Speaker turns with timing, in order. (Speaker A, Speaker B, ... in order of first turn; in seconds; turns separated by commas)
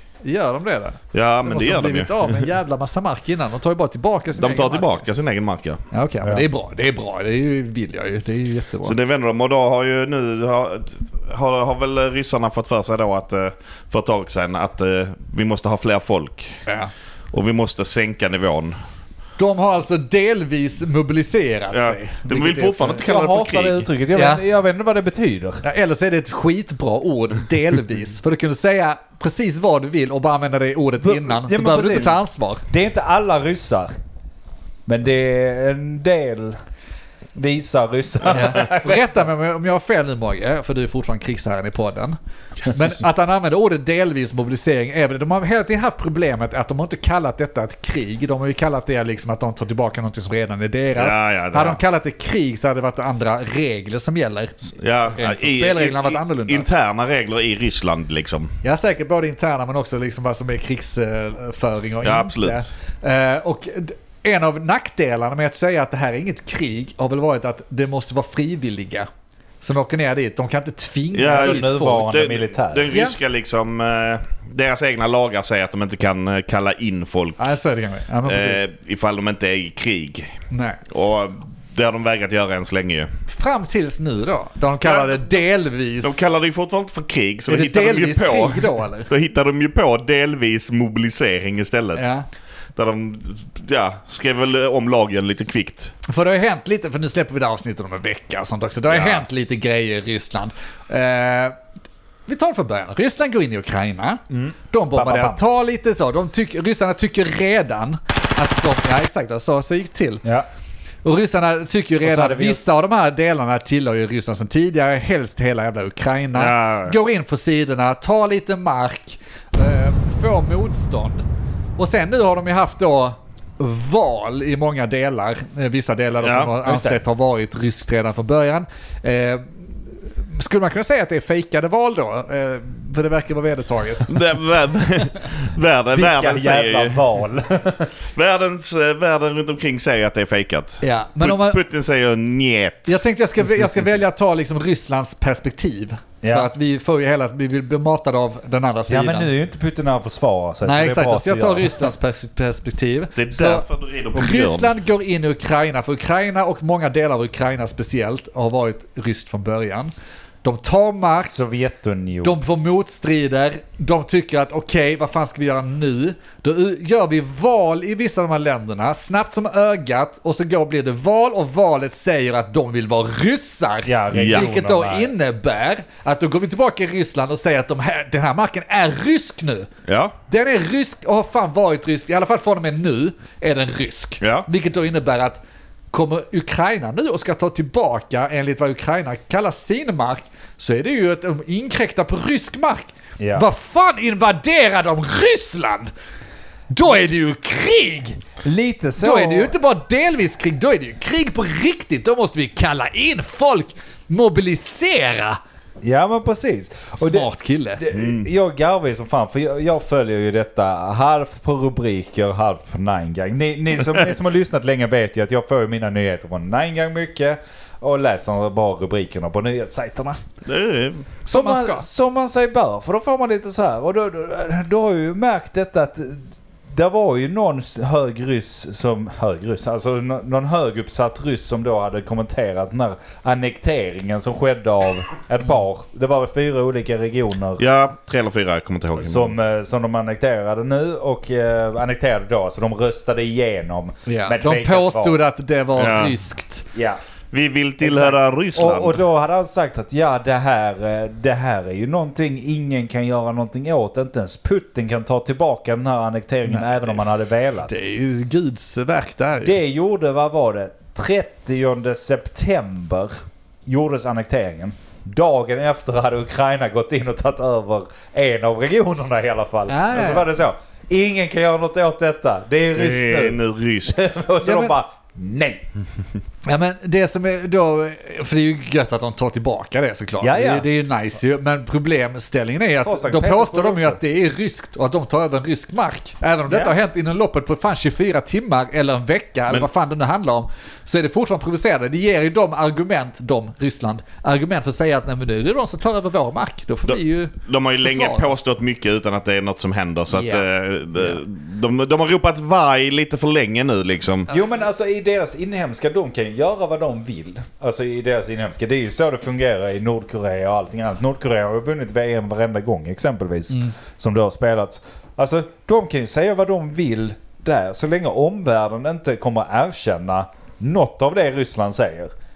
Speaker A: 0.2-5.0, Speaker B: 1.1-2.5, Speaker B: 4.4-5.8, Speaker A: 5.9-8.9, Speaker B: 8.8-16.6, Speaker B: 17.3-18.8, Speaker A: 19.4-23.0, Speaker B: 21.7-23.9, Speaker C: 23.0-25.6, Speaker A: 24.1-24.4, Speaker A: 25.6-32.6, Speaker C: 31.0-33.9, Speaker C: 34.9-36.6, Speaker C: 37.3-39.1, Speaker A: 38.3-56.6, Speaker B: 51.0-51.8, Speaker B: 54.8-58.5, Speaker A: 58.6-69.1, Speaker B: 62.0-62.6, Speaker A: 69.6-72.1, Speaker B: 71.1-77.5, Speaker C: 71.3-72.9, Speaker A: 72.9-73.2, Speaker A: 77.4-78.6, Speaker B: 78.2-80.3, Speaker A: 80.5-80.8, Speaker B: 80.9-83.1, Speaker A: 83.3-86.2, Speaker B: 84.8-85.4, Speaker B: 86.0-92.0, Speaker A: 87.5-89.1, Speaker A: 92.0-92.2, Speaker B: 92.8-95.9, Speaker A: 96.1-101.6, Speaker B: 98.9-99.2, Speaker A: 102.3-110.2, Speaker C: 104.3-105.4, Speaker A: 111.0-121.2, Speaker C: 112.0-112.6, Speaker B: 116.3-117.0, Speaker A: 121.8-134.1, Speaker B: 126.2-126.5, Speaker C: 126.7-126.9, Speaker B: 134.1-137.0, Speaker C: 135.9-137.9, Speaker B: 138.1-143.0, Speaker A: 140.8-141.6, Speaker A: 142.9-149.3, Speaker C: 146.2-146.5, Speaker C: 148.9-151.9, Speaker A: 150.6-159.9, Speaker B: 153.2-154.7, Speaker A: 160.4-161.3, Speaker C: 161.2-162.4, Speaker A: 162.2-179.7, Speaker C: 173.8-175.1, Speaker B: 174.1-174.5, Speaker B: 179.9-180.1, Speaker A: 180.3-185.4, Speaker B: 184.2-184.5, Speaker A: 185.9-195.9, Speaker C: 193.2-193.4, Speaker A: 196.7-198.2, Speaker C: 198.4-199.5, Speaker A: 199.0-205.4, Speaker C: 205.8-220.2, Speaker A: 207.0-207.8, Speaker B: 207.9-208.3, Speaker B: 220.4-221.1, Speaker A: 221.2-221.8, Speaker C: 221.3-237.6, Speaker B: 237.6-239.3, Speaker C: 239.0-245.2, Speaker A: 244.1-246.7, Speaker B: 245.8-246.2, Speaker C: 246.7-247.0, Speaker B: 247.3-249.0, Speaker C: 247.8-257.7, Speaker A: 256.5-257.0, Speaker A: 257.6-259.6, Speaker C: 259.4-275.6, Speaker A: 269.7-270.3, Speaker B: 272.7-274.0, Speaker A: 274.4-274.7, Speaker A: 276.4-298.4, Speaker C: 280.2-280.7, Speaker C: 282.8-284.0, Speaker C: 286.5-286.7, Speaker B: 296.9-304.3, Speaker A: 300.1-301.2, Speaker C: 304.3-322.1